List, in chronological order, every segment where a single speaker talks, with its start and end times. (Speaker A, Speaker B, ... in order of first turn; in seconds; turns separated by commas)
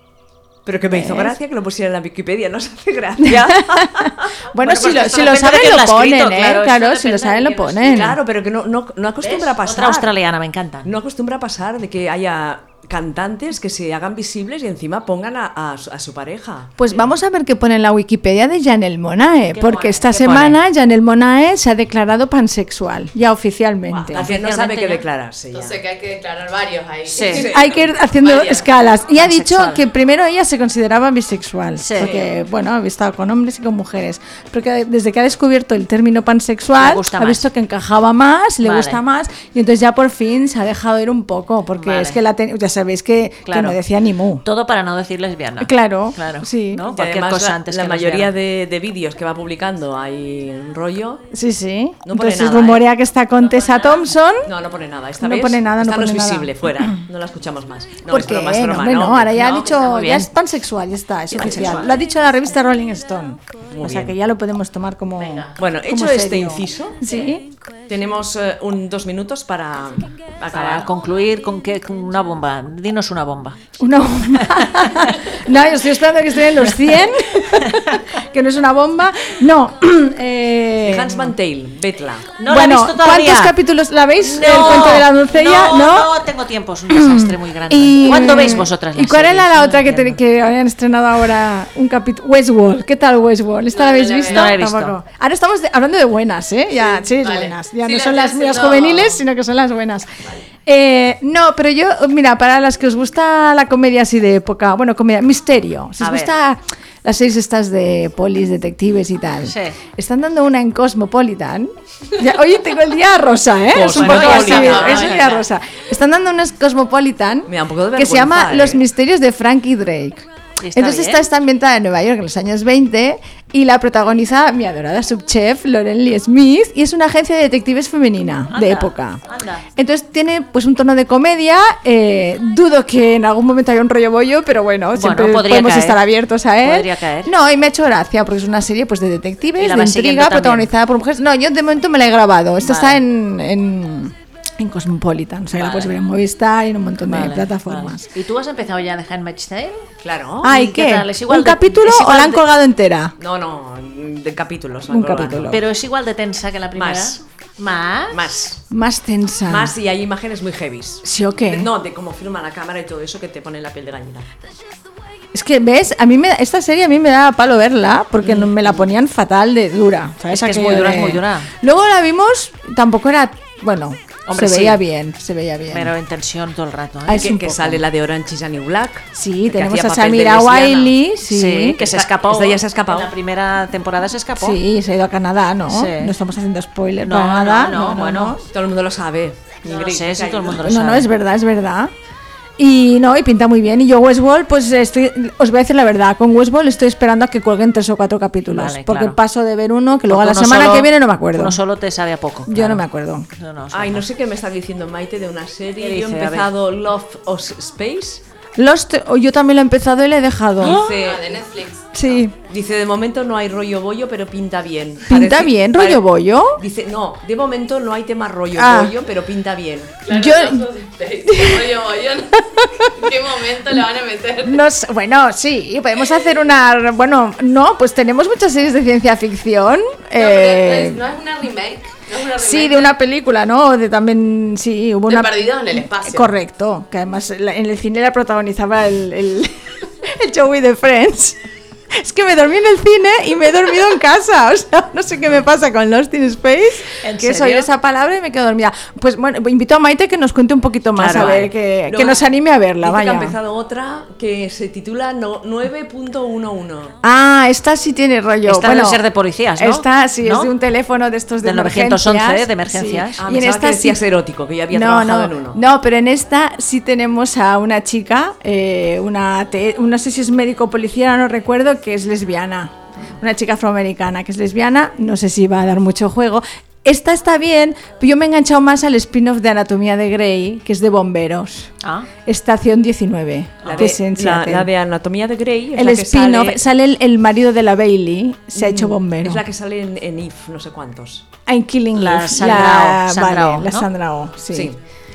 Speaker A: 0.7-5.2, Speaker B: 0.9-1.4, Speaker B: 3.2-8.2, Speaker C: 4.7-8.1, Speaker A: 7.8-10.2, Speaker C: 9.2-10.9, Speaker A: 10.8-16.8, Speaker B: 16.8-24.3, Speaker C: 19.5-20.6, Speaker C: 23.9-25.0, Speaker A: 24.1-25.8, Speaker D: 25.5-27.6, Speaker C: 27.1-27.5, Speaker A: 27.3-27.8, Speaker B: 27.4-44.4, Speaker D: 28.2-28.6, Speaker C: 29.1-29.8, Speaker C: 31.8-32.1, Speaker A: 32.0-32.4, Speaker C: 36.8-37.5, Speaker C: 38.6-39.0, Speaker C: 41.7-42.2, Speaker C: 43.5-43.8, Speaker C: 44.4-48.3, Speaker B: 45.6-46.9, Speaker A: 46.9-51.3, Speaker B: 51.3-54.5, Speaker A: 52.0-52.9, Speaker C: 53.3-54.1, Speaker A: 54.4-59.5, Speaker B: 55.2-57.0, Speaker B: 58.1-67.4, Speaker C: 59.3-60.3, Speaker C: 61.3-62.0, Speaker A: 63.7-64.2, Speaker C: 65.2-65.6, Speaker A: 65.6-67.0, Speaker C: 67.0-67.3, Speaker A: 67.9-70.9, Speaker C: 70.5-73.6, Speaker B: 73.8-81.3, Speaker C: 74.4-75.4, Speaker C: 76.6-78.1, Speaker A: 80.8-82.3, Speaker C: 82.4-83.6, Speaker B: 82.5-86.2, Speaker C: 84.2-90.2, Speaker B: 86.9-129.2, Speaker D: 93.7-94.5, Speaker C: 94.3-95.0, Speaker D: 96.7-99.2, Speaker C: 106.0-106.3, Speaker C: 109.4-109.8, Speaker A: 113.7-115.2, Speaker C: 113.9-115.4, Speaker A: 117.5-118.8, Speaker C: 120.6-121.2, Speaker C: 128.5-129.7, Speaker B: 129.8-148.1, Speaker C: 134.9-136.0, Speaker C: 136.6-137.3, Speaker C: 139.6-140.7, Speaker C: 142.6-143.0, Speaker C: 145.6-145.9, Speaker C: 147.1-149.9, Speaker A: 150.0-150.5, Speaker C: 150.4-152.4, Speaker B: 150.4-153.1, Speaker A: 153.2-155.6, Speaker B: 154.9-155.6, Speaker C: 155.5-158.2, Speaker A: 156.7-157.2, Speaker A: 158.1-158.6, Speaker B: 158.7-159.7, Speaker A: 159.5-164.3, Speaker B: 161.1-161.7, Speaker B: 165.3-175.9, Speaker C: 168.2-168.9, Speaker C: 170.3-171.5, Speaker C: 174.3-174.8, Speaker C: 175.7-177.8, Speaker A: 177.1-180.9, Speaker B: 177.1-177.4, Speaker B: 179.2-181.8, Speaker C: 181.2-184.6, Speaker A: 181.9-183.1, Speaker B: 184.4-188.5, Speaker C: 185.7-186.2, Speaker C: 187.1-188.4, Speaker A: 188.5-190.7, Speaker C: 189.7-191.1, Speaker B: 190.6-191.9, Speaker B: 192.6-201.6, Speaker C: 198.5-199.2, Speaker C: 200.1-204.1, Speaker B: 202.5-203.3, Speaker A: 203.7-208.2, Speaker C: 205.8-206.5, Speaker B: 208.6-210.9, Speaker A: 210.6-211.4, Speaker D: 210.6-212.2, Speaker B: 211.9-212.3, Speaker A: 212.4-216.0, Speaker B: 215.1-216.6, Speaker A: 216.6-220.0, Speaker B: 218.6-218.9, Speaker D: 220.0-224.6, Speaker B: 220.1-220.7, Speaker B: 221.3-221.8, Speaker B: 222.6-223.1, Speaker B: 224.4-231.0, Speaker D: 230.2-232.9, Speaker B: 232.4-241.4, Speaker D: 235.1-236.3, Speaker B: 241.9-253.3, Speaker C: 247.0-247.7, Speaker C: 251.0-251.5, Speaker A: 251.9-252.3, Speaker A: 252.8-257.0, Speaker B: 257.0-259.0, Speaker C: 258.4-260.5, Speaker B: 259.6-264.0, Speaker C: 261.4-263.2, Speaker A: 263.2-265.6, Speaker B: 264.7-281.7, Speaker C: 281.8-282.1, Speaker B: 282.3-284.7, Speaker A: 283.7-286.6, Speaker B: 285.8-289.4, Speaker A: 288.6-291.3, Speaker B: 291.5-294.7, Speaker C: 292.0-293.9, Speaker A: 294.5-294.8